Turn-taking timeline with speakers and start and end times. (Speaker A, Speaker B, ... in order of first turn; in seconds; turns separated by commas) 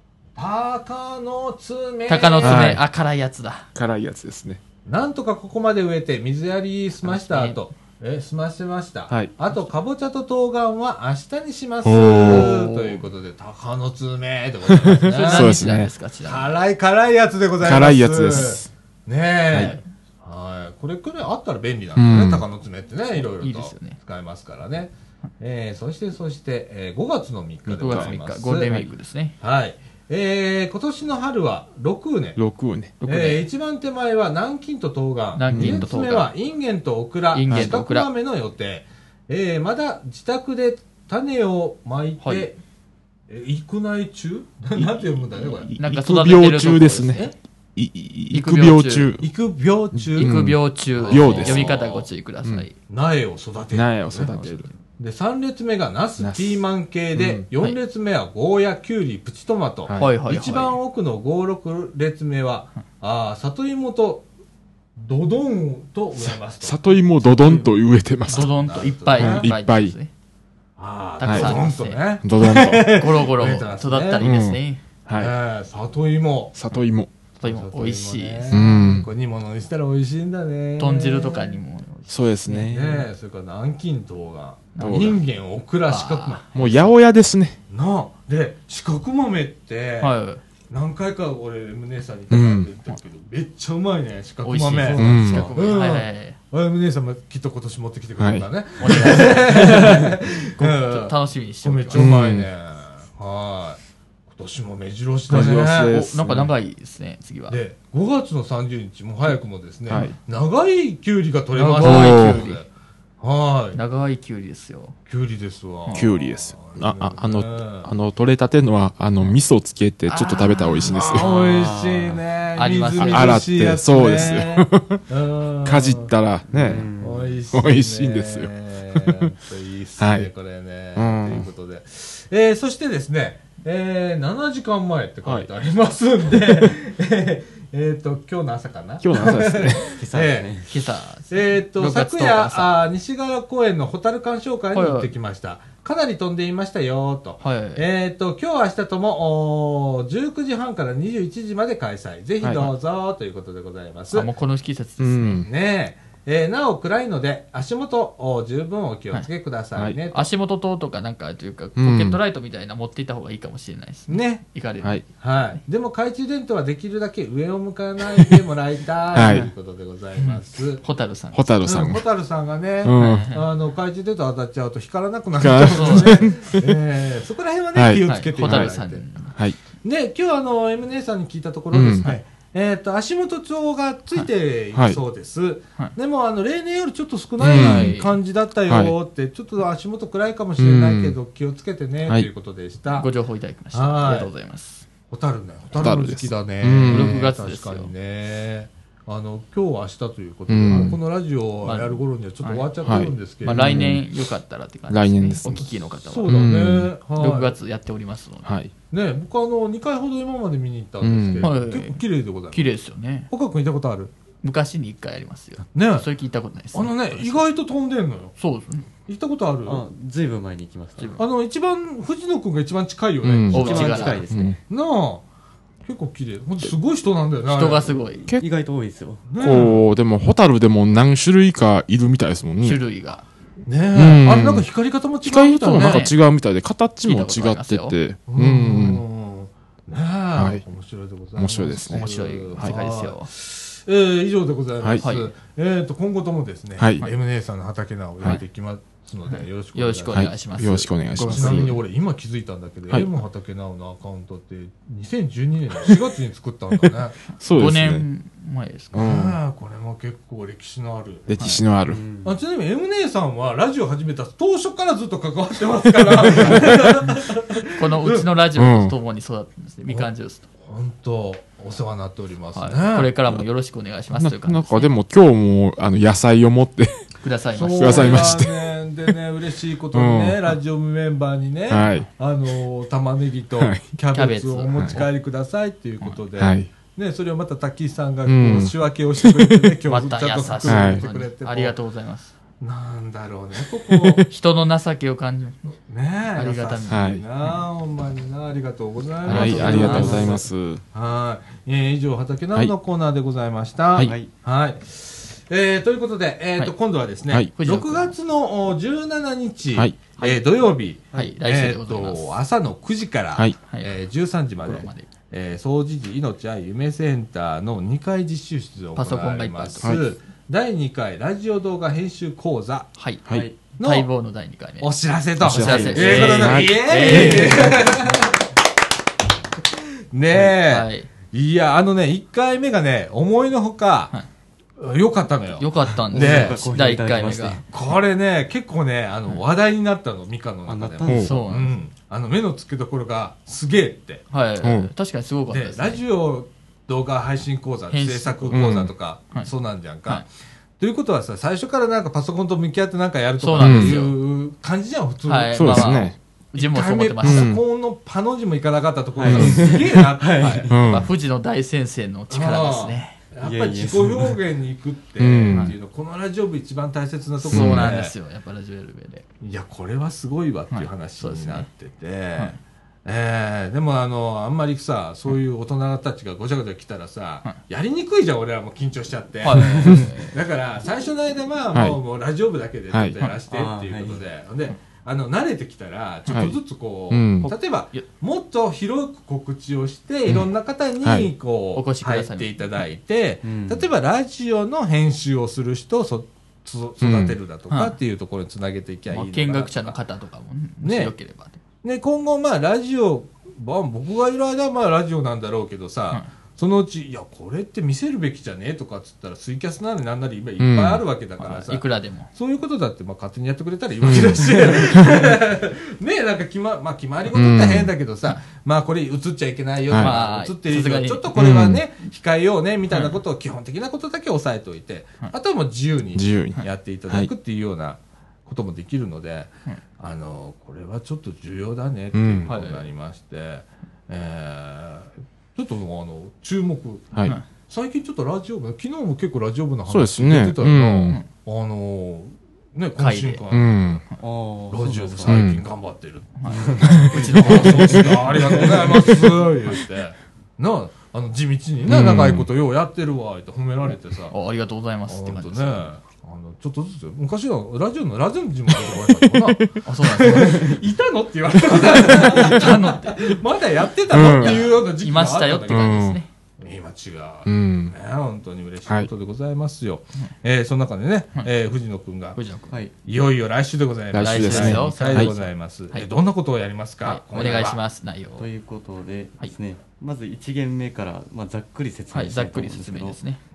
Speaker A: 0.4-2.7, Speaker B: 2.1-3.7, Speaker C: 2.4-2.8, Speaker C: 3.8-4.6, Speaker A: 4.8-15.6, Speaker B: 7.0-7.6, Speaker C: 11.8-12.5, Speaker B: 12.2-13.0, Speaker C: 14.7-15.9, Speaker B: 15.1-16.5, Speaker A: 16.2-28.8, Speaker C: 17.6-18.7, Speaker C: 22.0-22.4, Speaker B: 23.2-24.0, Speaker C: 27.7-28.1, Speaker B: 27.8-29.4, Speaker A: 29.4-32.4, Speaker C: 32.4-33.0, Speaker B: 33.0-33.5, Speaker A: 33.0-42.6, Speaker B: 35.4-36.3, Speaker C: 35.5-35.9, Speaker B: 37.3-38.1, Speaker C: 37.5-37.8, Speaker B: 42.2-42.5, Speaker A: 43.3-45.7, Speaker C: 44.8-47.2, Speaker B: 45.8-47.3, Speaker C: 47.8-49.3, Speaker B: 48.3-49.2, Speaker A: 49.2-52.1, Speaker C: 50.0-51.8, Speaker B: 50.1-52.7, Speaker A: 52.9-54.3, Speaker C: 53.7-54.7, Speaker B: 54.1-54.8, Speaker A: 55.0-64.3, Speaker C: 56.2-56.6, Speaker C: 57.2-57.5, Speaker C: 59.9-60.1, Speaker B: 60.0-60.8, Speaker A: 65.0-67.7, Speaker C: 66.6-68.5, Speaker A: 68.3-69.5, Speaker B: 68.3-70.1, Speaker C: 69.2-70.0, Speaker A: 70.8-74.3, Speaker B: 71.2-74.8, Speaker C: 71.2-71.6, Speaker C: 72.2-73.0, Speaker C: 74.2-75.3, Speaker A: 75.1-76.5, Speaker C: 76.5-77.1, Speaker B: 77.4-78.6, Speaker A: 77.4-81.6, Speaker C: 78.5-79.1, Speaker B: 80.8-82.9, Speaker C: 82.1-83.0, Speaker A: 82.7-86.9, Speaker B: 84.8-85.2, Speaker C: 84.8-85.2, Speaker B: 85.9-86.7, Speaker C: 86.5-87.6, Speaker A: 87.7-90.1, Speaker B: 90.0-90.4, Speaker A: 90.7-106.1, Speaker C: 92.3-92.7, Speaker B: 94.4-96.4, Speaker D: 94.8-95.5, Speaker C: 95.0-95.5, Speaker C: 98.2-98.5, Speaker B: 98.8-102.1, Speaker C: 101.9-102.5, Speaker C: 105.3-106.5, Speaker B: 105.3-107.6, Speaker A: 107.5-112.7, Speaker C: 109.9-110.2, Speaker B: 111.5-112.6, Speaker C: 111.8-112.4, Speaker A: 113.2-113.8, Speaker B: 113.7-115.0, Speaker A: 115.1-117.9, Speaker B: 115.9-116.1, Speaker C: 115.9-121.2, Speaker B: 120.1-121.3, Speaker A: 120.9-126.1, Speaker D: 121.1-122.2, Speaker B: 122.6-123.5, Speaker C: 123.0-125.0, Speaker C: 125.6-126.9, Speaker D: 126.5-127.4, Speaker A: 127.0-140.7, Speaker C: 127.5-129.3, Speaker C: 130.0-130.3, Speaker C: 130.9-131.5, Speaker C: 135.2-135.5, Speaker C: 139.0-140.0, Speaker D: 140.0-140.7, Speaker B: 140.7-142.8, Speaker A: 141.3-154.3, Speaker B: 144.7-145.1, Speaker B: 147.4-147.8, Speaker C: 152.4-152.7, Speaker B: 154.1-155.5, Speaker C: 155.0-155.5, Speaker A: 155.4-160.3, Speaker B: 160.1-165.2, Speaker C: 161.8-162.2, Speaker A: 164.1-164.4, Speaker A: 165.2-170.8, Speaker C: 169.1-169.5, Speaker B: 170.3-171.4, Speaker C: 171.3-172.1, Speaker A: 171.6-179.1, Speaker C: 172.8-173.3, Speaker B: 172.9-173.5, Speaker C: 175.4-176.8, Speaker B: 175.7-176.3, Speaker C: 177.8-178.7, Speaker B: 178.0-179.4, Speaker A: 179.8-193.1, Speaker C: 181.7-182.1, Speaker C: 187.4-188.0, Speaker B: 187.4-188.2, Speaker C: 188.7-188.9, Speaker C: 190.6-191.2, Speaker B: 192.9-194.9, Speaker A: 193.7-194.3, Speaker A: 195.1-204.0, Speaker C: 195.8-197.2, Speaker B: 196.8-197.9, Speaker C: 200.5-201.0, Speaker B: 201.6-206.6, Speaker C: 202.8-204.1, Speaker C: 204.9-205.7, Speaker A: 206.1-207.6, Speaker C: 206.3-206.9, Speaker B: 207.2-208.5, Speaker C: 208.4-208.7, Speaker A: 208.9-212.7, Speaker C: 211.0-211.5, Speaker B: 211.4-213.3, Speaker A: 213.3-214.1, Speaker B: 214.4-217.4, Speaker A: 215.7-216.1, Speaker A: 216.7-218.3, Speaker B: 218.4-218.9, Speaker A: 219.1-219.8, Speaker D: 219.7-221.2, Speaker B: 221.0-221.2, Speaker A: 221.2-224.2, Speaker C: 223.2-224.6, Speaker B: 223.5-224.3, Speaker D: 223.5-224.6, Speaker A: 224.7-225.2, Speaker A: 225.9-228.0, Speaker B: 227.5-228.3, Speaker D: 228.2-229.2, Speaker A: 229.3-229.9, Speaker C: 229.4-232.8, Speaker B: 232.6-233.2, Speaker A: 233.7-236.1, Speaker C: 233.9-234.7, Speaker C: 235.2-239.0, Speaker B: 235.7-236.2, Speaker B: 237.1-238.0, Speaker A: 238.3-250.3, Speaker C: 240.4-240.6, Speaker C: 241.4-242.8, Speaker B: 241.9-243.3, Speaker B: 245.0-245.3, Speaker C: 246.8-247.1, Speaker B: 249.3-251.8, Speaker C: 250.1-251.8, Speaker A: 251.2-257.2, Speaker C: 257.4-258.1, Speaker B: 257.4-259.1, Speaker C: 258.9-259.4, Speaker A: 259.0-261.3, Speaker C: 261.3-262.0, Speaker D: 261.9-262.4, Speaker A: 262.2-268.3, Speaker C: 266.3-266.9, Speaker B: 267.7-270.5, Speaker C: 268.6-268.9, Speaker A: 270.6-273.1, Speaker B: 272.5-274.9, Speaker C: 274.1-277.0, Speaker B: 277.2-278.4, Speaker A: 277.5-291.8, Speaker C: 277.8-279.1, Speaker C: 279.9-280.4, Speaker C: 281.7-282.1, Speaker C: 283.6-283.8, Speaker B: 284.1-285.1, Speaker C: 284.8-285.1, Speaker C: 286.4-286.7, Speaker C: 288.3-289.8, Speaker B: 289.9-292.3, Speaker C: 290.6-291.0, Speaker A: 292.6-294.3, Speaker C: 293.9-294.3, Speaker B: 294.3-295.7, Speaker A: 295.9-322.9, Speaker B: 296.3-297.5, Speaker C: 296.9-297.2, Speaker B: 299.2-300.3, Speaker C: 299.3-300.8, Speaker D: 299.4-300.4, Speaker D: 304.0-304.3, Speaker B: 307.6-308.1, Speaker B: 311.1-312.4, Speaker B: 313.7-313.9, Speaker B: 314.6-315.1, Speaker B: 319.0-320.0, Speaker B: 323.0-327.9, Speaker D: 323.3-323.6, Speaker A: 323.8-324.1, Speaker A: 324.8-328.4, Speaker C: 325.4-327.5, Speaker D: 325.6-326.5, Speaker D: 327.0-327.9, Speaker A: 330.1-334.1, Speaker B: 330.4-331.1, Speaker A: 334.8-336.6, Speaker B: 335.6-337.6, Speaker D: 336.1-337.6, Speaker A: 337.7-344.2, Speaker D: 340.7-341.4, Speaker B: 341.1-341.7, Speaker B: 344.3-346.0, Speaker C: 344.6-344.9, Speaker A: 345.5-350.3, Speaker B: 347.9-348.7, Speaker C: 348.5-348.9, Speaker A: 350.8-356.0, Speaker B: 353.4-354.2, Speaker C: 353.6-354.0, Speaker B: 355.3-357.6, Speaker C: 355.6-356.2, Speaker A: 356.6-360.7, Speaker C: 357.2-357.6, Speaker D: 359.2-360.9, Speaker C: 359.2-360.0, Speaker B: 360.4-363.2, Speaker C: 360.7-361.1, Speaker A: 362.3-368.1, Speaker D: 363.4-364.4, Speaker C: 365.2-365.7, Speaker B: 365.5-365.8, Speaker B: 367.4-369.3, Speaker C: 367.5-367.9, Speaker A: 369.4-400.0, Speaker B: 370.7-371.7, Speaker B: 379.4-380.4, Speaker D: 379.6-380.1, Speaker C: 381.7-382.0, Speaker C: 382.9-383.2, Speaker D: 383.5-384.2, Speaker C: 386.3-386.6, Speaker C: 387.1-387.5, Speaker B: 387.4-388.1, Speaker C: 391.0-391.3, Speaker B: 391.8-392.5, Speaker D: 393.4-393.9, Speaker C: 397.0-397.4, Speaker B: 397.7-398.0, Speaker B: 399.1-401.6, Speaker A: 400.8-401.1, Speaker A: 401.8-444.0, Speaker C: 410.6-411.0, Speaker B: 411.4-412.3, Speaker C: 414.0-415.3, Speaker C: 417.3-417.9, Speaker C: 419.9-420.1, Speaker B: 420.0-421.3, Speaker C: 421.4-421.8, Speaker C: 426.1-427.3, Speaker C: 432.1-432.5, Speaker B: 432.5-432.9, Speaker C: 439.9-441.2, Speaker B: 443.0-443.4, Speaker C: 443.5-444.0, Speaker D: 444.2-445.4, Speaker A: 444.7-454.3, Speaker C: 445.3-445.6, Speaker B: 446.4-448.7, Speaker D: 446.5-449.2, Speaker C: 451.9-452.5, Speaker B: 454.3-455.9, Speaker A: 455.1-466.0, Speaker C: 458.9-459.8, Speaker B: 459.9-460.8, Speaker B: 461.7-463.4, Speaker C: 462.1-462.6, Speaker C: 464.1-464.7, Speaker B: 464.1-466.3, Speaker C: 465.7-466.2, Speaker A: 466.6-472.4, Speaker C: 467.5-467.9, Speaker B: 472.4-472.8, Speaker A: 473.1-477.8, Speaker C: 474.1-475.3, Speaker B: 474.2-476.1, Speaker B: 477.0-478.5, Speaker D: 477.4-477.7, Speaker D: 478.4-483.2, Speaker B: 482.1-483.4